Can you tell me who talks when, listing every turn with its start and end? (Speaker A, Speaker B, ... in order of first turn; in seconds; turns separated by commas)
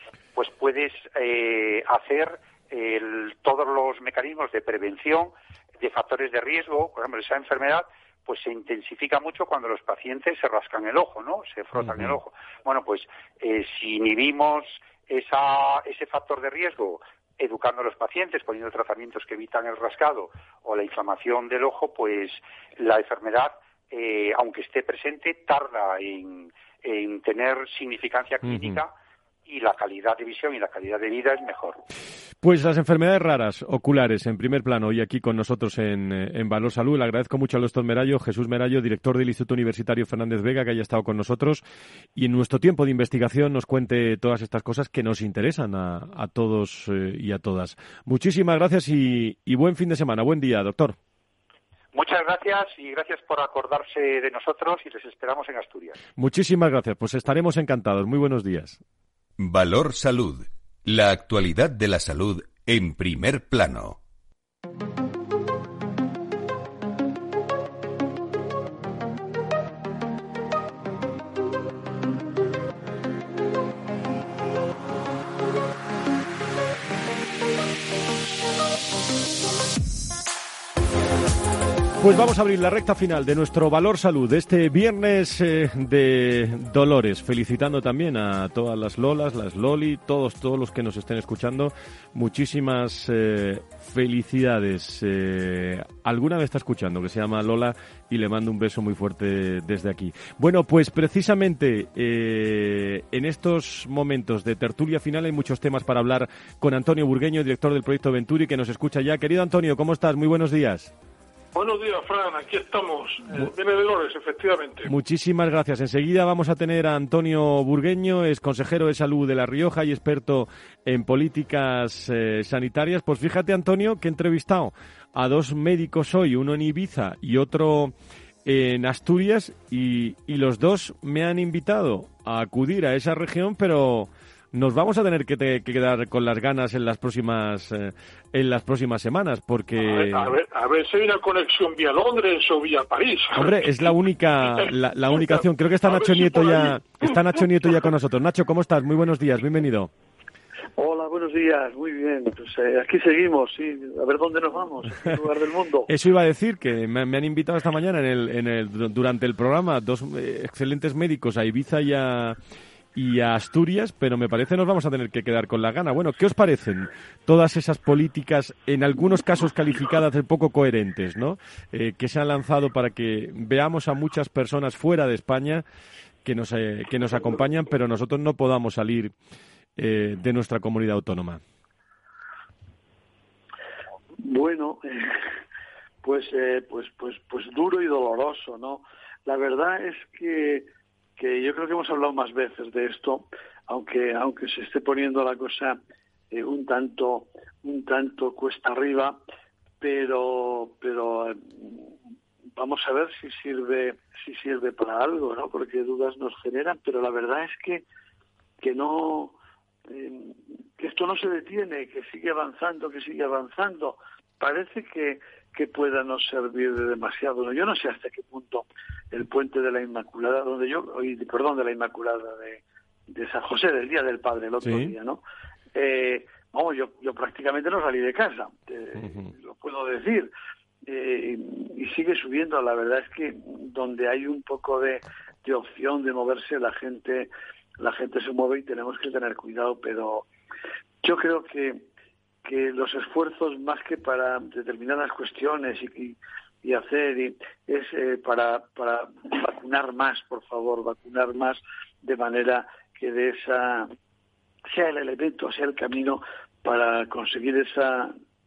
Speaker A: 0.3-28.9, Speaker B: 11.8-12.1, Speaker B: 28.4-28.8, Speaker A: 29.4-31.8, Speaker B: 32.4-41.6, Speaker B: 42.1-51.0, Speaker A: 51.9-56.0, Speaker B: 56.2-58.8, Speaker C: 59.4-64.0, Speaker B: 82.0-110.9, Speaker D: 111.5-114.9, Speaker B: 114.8-127.9, Speaker B: 128.4-140.3, Speaker D: 139.8-143.8, Speaker B: 143.3-149.9, Speaker D: 144.5-147.5, Speaker E: 150.8-155.9, Speaker B: 155.9-162.4, Speaker B: 162.9-175.6, Speaker B: 176.2-179.1, Speaker B: 179.8-181.4, Speaker E: 184.2-185.2, Speaker E: 186.0-195.8, Speaker E: 196.3-199.2, Speaker E: 199.8-201.9, Speaker E: 202.6-207.8, Speaker E: 208.6-209.3, Speaker E: 209.9-225.2, Speaker B: 224.6-224.9, Speaker E: 225.7-230.3, Speaker B: 229.0-229.3, Speaker E: 230.8-240.2, Speaker E: 241.0-241.8, Speaker E: 242.4-253.9, Speaker E: 254.7-258.1